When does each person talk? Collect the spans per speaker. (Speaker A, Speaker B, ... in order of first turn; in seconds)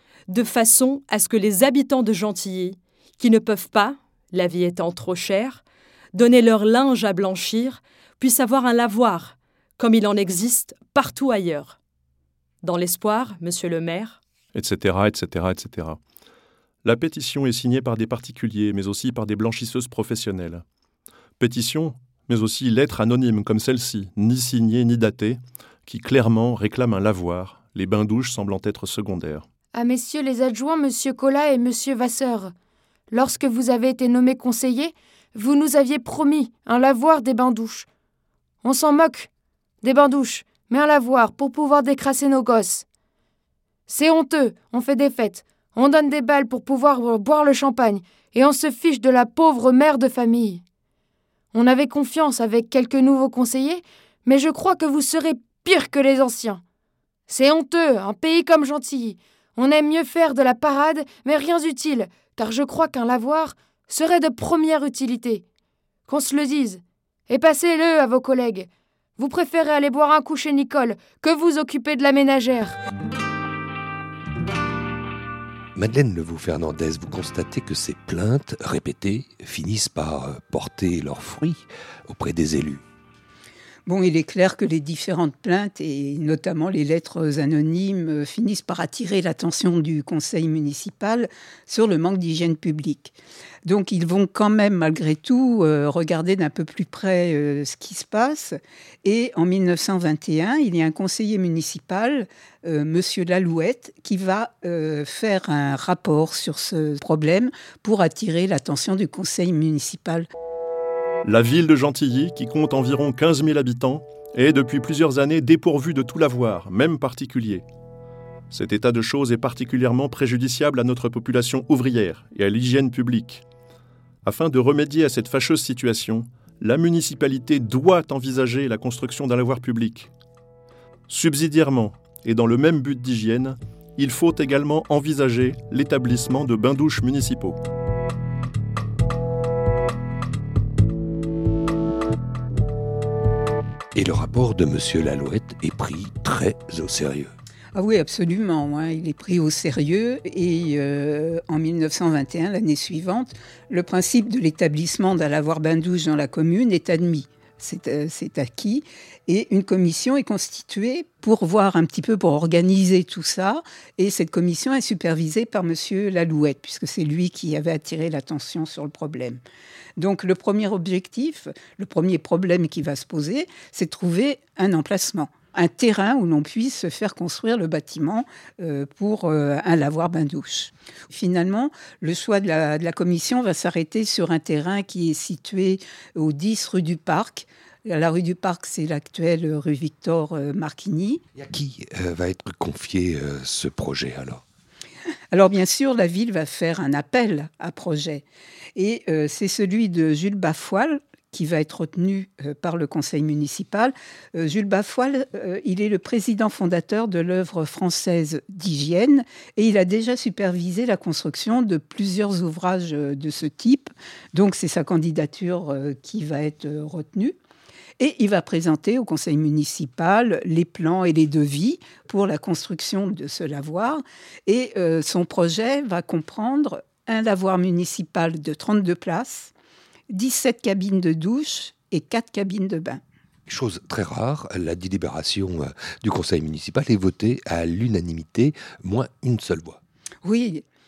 Speaker A: 0.3-5.6, 6.1-11.8, 12.6-14.2
Speaker B: 14.6-16.0, 16.8-20.6, 21.4-29.4, 111.2-117.7, 118.5-123.4, 124.2-130.1, 131.1-137.6
Speaker C: 29.7-32.5, 33.1-37.9, 38.6-39.3, 39.8-42.9, 43.9-50.6, 51.5-56.6, 57.3-65.4, 66.1-72.8
Speaker D: 75.8-82.8, 143.9-147.3, 191.3-194.4, 233.5-239.8
Speaker E: 83.9-110.3, 147.8-169.4, 170.0-191.2, 195.3-198.2, 198.8-217.3, 218.0-229.5, 230.1-233.0, 240.2-240.7